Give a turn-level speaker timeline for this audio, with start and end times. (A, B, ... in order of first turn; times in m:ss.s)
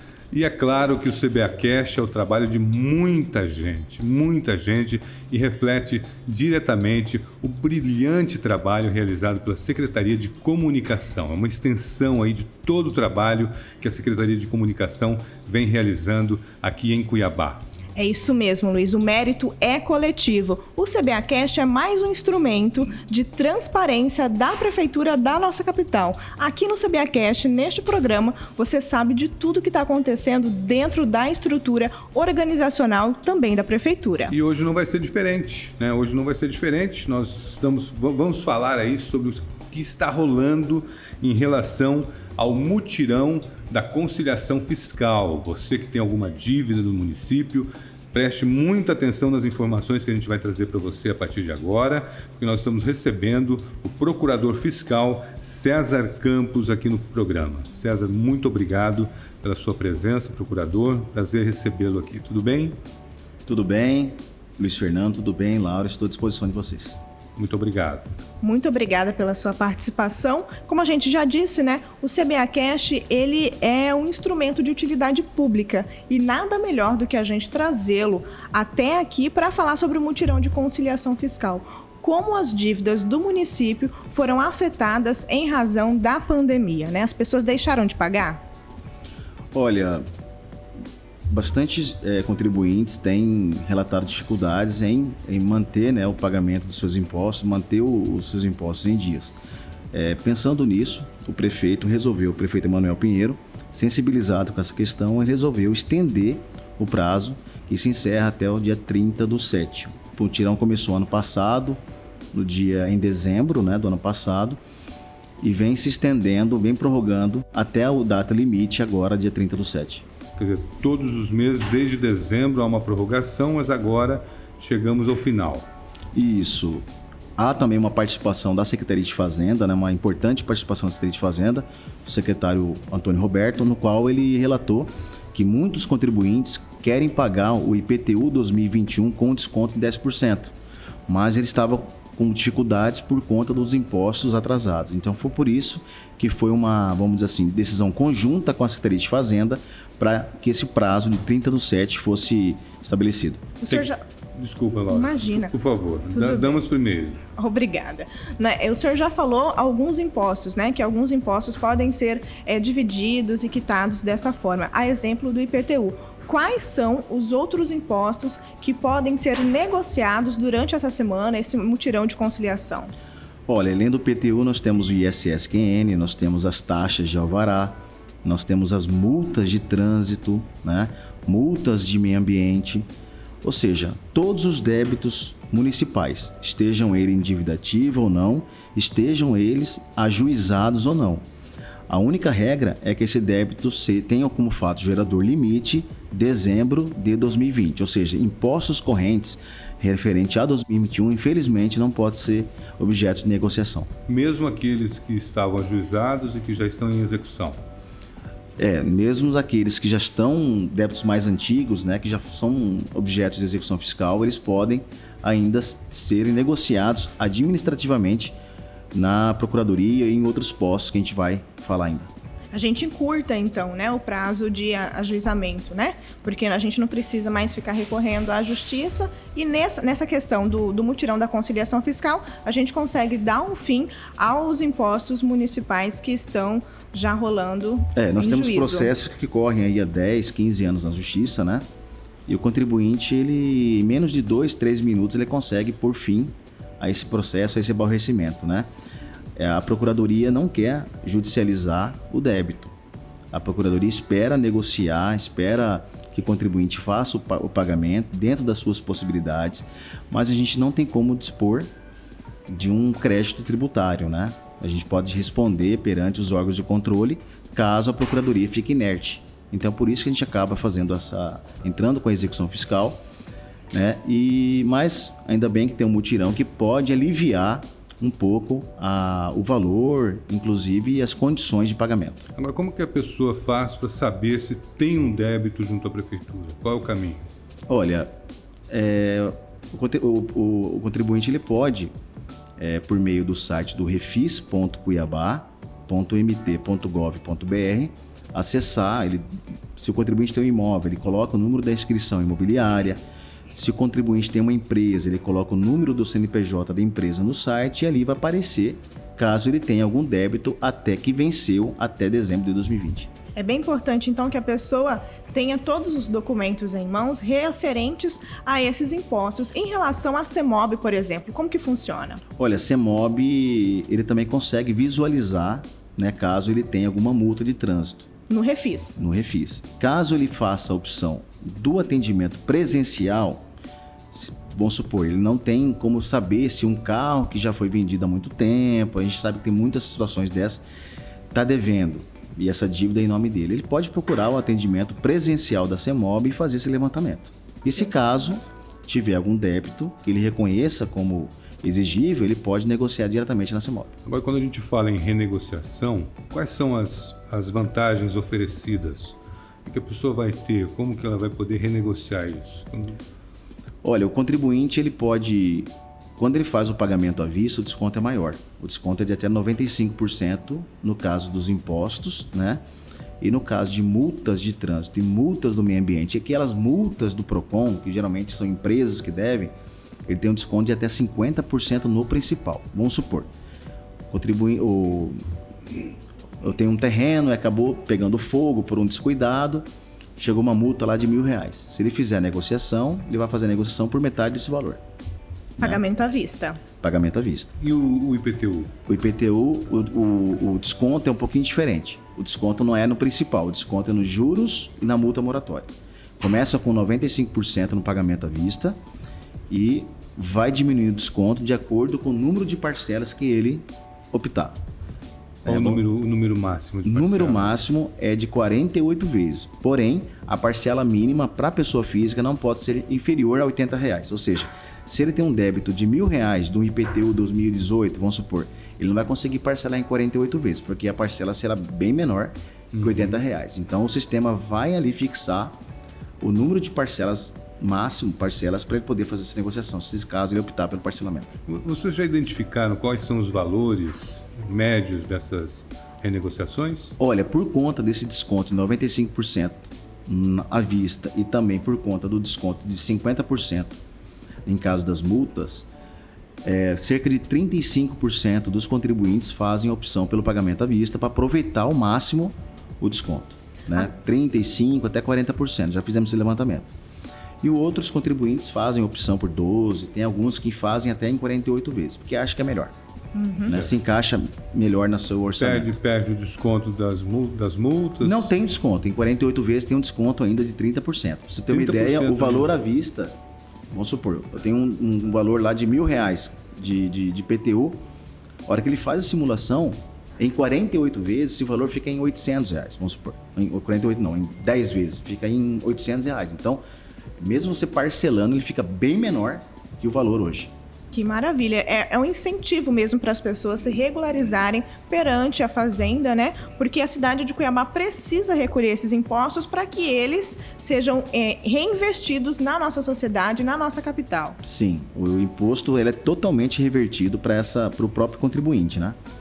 0:00.3-0:17.6 A
0:18.0-0:34.3 B
0:34.3-1:02.8 A
1:03.4-1:07.0 C
1:07.4-1:08.1 A
1:08.4-1:28.4 B
1:29.5-1:30.0 C
1:31.3-1:39.3 C
1:39.9-1:51.8 C
1:52.3-1:54.6 C
1:55.4-2:00.0 C
2:00.4-2:05.6 A
2:06.1-2:06.8 C
2:07.4-2:20.5 C
2:21.1-2:33.4 C
2:33.6-2:34.0 B
2:33.7-2:37.2 A
2:34.9-2:35.5 B
2:36.1-2:36.6 B
2:37.4-2:52.9 B
2:53.5-3:02.8 C
3:03.4-3:11.2 C
3:11.9-3:23.9 C
3:24.1-3:27.6 A
3:28.6-3:38.3 C
3:38.9-3:42.1 C
3:42.5-3:58.9 B
3:57.9-4:01.6 C
4:02.3-4:08.7 C
4:09.4-4:12.8 C
4:13.3-4:21.7 C
4:22.5-4:33.0 C
4:33.7-4:42.2 C
4:42.4-4:47.3 A
4:47.7-4:48.1 C
4:48.7-4:51.9 C
4:52.6-5:03.0 C
5:03.5-5:13.1 C
5:13.3-5:22.2 B
5:22.4-5:28.1 C
5:28.3-5:29.0 B
5:29.0-5:33.4 C
5:34.1-5:40.6 C
5:41.3-5:53.9 C
5:54.0-6:03.0 A
6:03.8-6:12.6 C
6:13.2-6:19.5 C
6:20.1-6:23.3 C
6:24.1-6:25.2 C
6:26.4-6:29.6 C
6:30.2-6:34.8 C
6:35.6-6:36.6 B
6:36.8-6:37.5 C
6:37.6-6:38.7 A
6:38.9-6:48.8 C
6:49.5-6:54.6 C
6:55.4-6:55.8 C
6:55.5-6:57.6 A
6:56.8-7:15.6 C
7:12.7-7:13.2 A
7:16.2-7:21.3 C
7:21.5-7:26.9 A
7:27.0-7:33.8 C
7:34.4-7:35.7 C
7:36.4-7:46.7 C
7:47.4-7:52.7 C
7:53.1-7:53.5 B
7:53.5-7:55.7 C
7:55.4-7:58.3 A
7:58.0-8:03.1 C
8:01.5-8:02.5 A
8:03.7-8:07.8 C
8:08.4-8:16.6 C
8:17.2-8:20.5 C
8:20.9-8:34.4 B
8:34.4-8:39.0 C